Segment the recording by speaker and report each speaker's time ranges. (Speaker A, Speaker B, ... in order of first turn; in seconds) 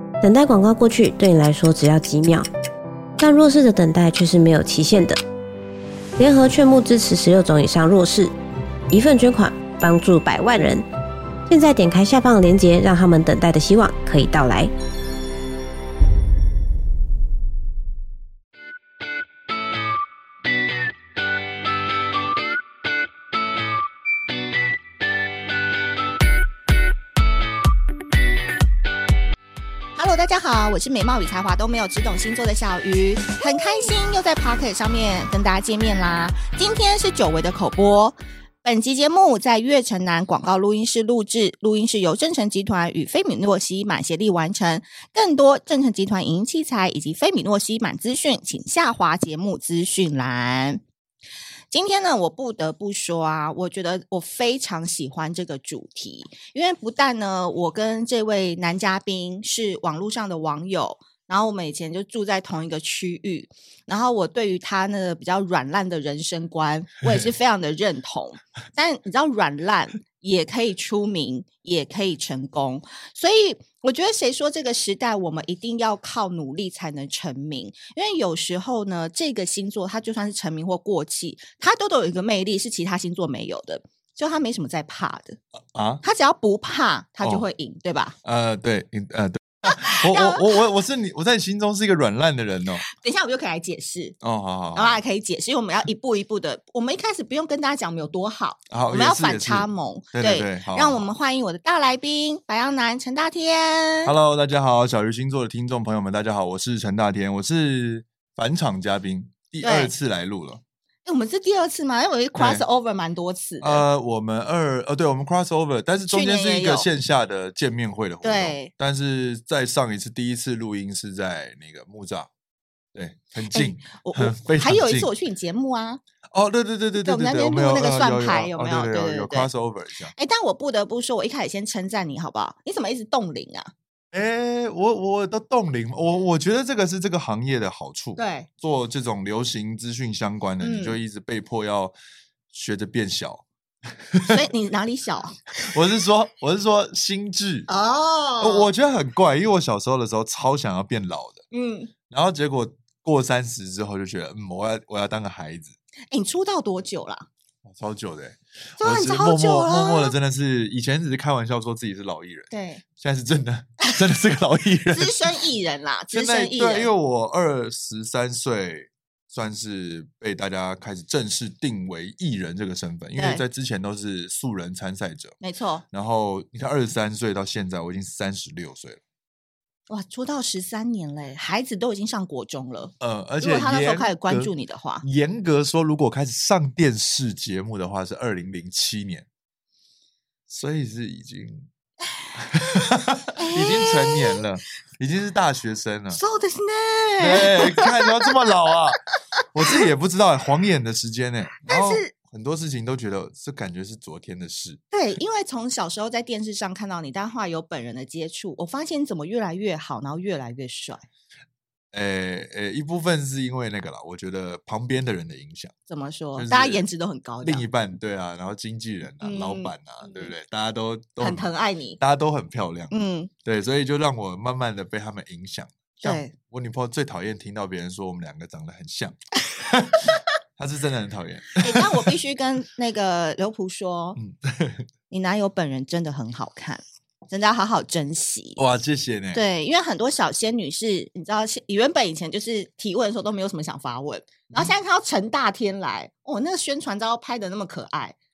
Speaker A: 0.2-2.5, 3.2-5.2, 6.2-8.3, 8.9-10.8, 11.5-14.7
Speaker B: 30.0-50.8, 51.7-85.4, 86.0-88.2, 89.7-90.5, 92.8-94.2, 94.7-104.1, 109.6-109.9, 111.0-113.8, 116.1-116.9, 118.2-118.7, 123.5-126.0, 127.0-129.5, 130.2-133.7, 138.2-138.5, 140.6-141.0, 144.2-145.4, 147.7-148.7, 151.5-151.9, 156.1-157.3, 158.8-160.1, 162.5-162.8, 164.9-166.9, 173.2-173.4, 175.4-175.8, 179.9-185.0, 193.3-194.4, 196.1-198.3, 201.7-202.1, 204.9-211.0, 215.9-217.7, 219.2-220.3, 221.2-222.0, 222.9-223.3, 226.0-226.3, 231.6-234.2, 235.1-238.6, 239.3-248.2
Speaker C: 85.7-86.0, 87.2-87.5, 88.2-92.8, 94.2-95.0, 98.7-101.1, 104.0-110.6, 112.4-112.6, 113.6-122.3, 122.9-125.1, 126.3-130.1, 134.1-141.9, 142.5-143.4, 144.0-144.4, 145.6-147.7, 148.4-151.4, 152.1-155.8, 157.6-165.3, 166.1-175.3, 175.9-179.0, 183.0-189.3, 190.5-191.7, 192.3-196.2, 197.2-199.0, 199.5-204.8, 211.9-215.8, 216.3-216.8, 217.4-221.5, 222.0-232.1, 234.2-234.9, 238.6-239.4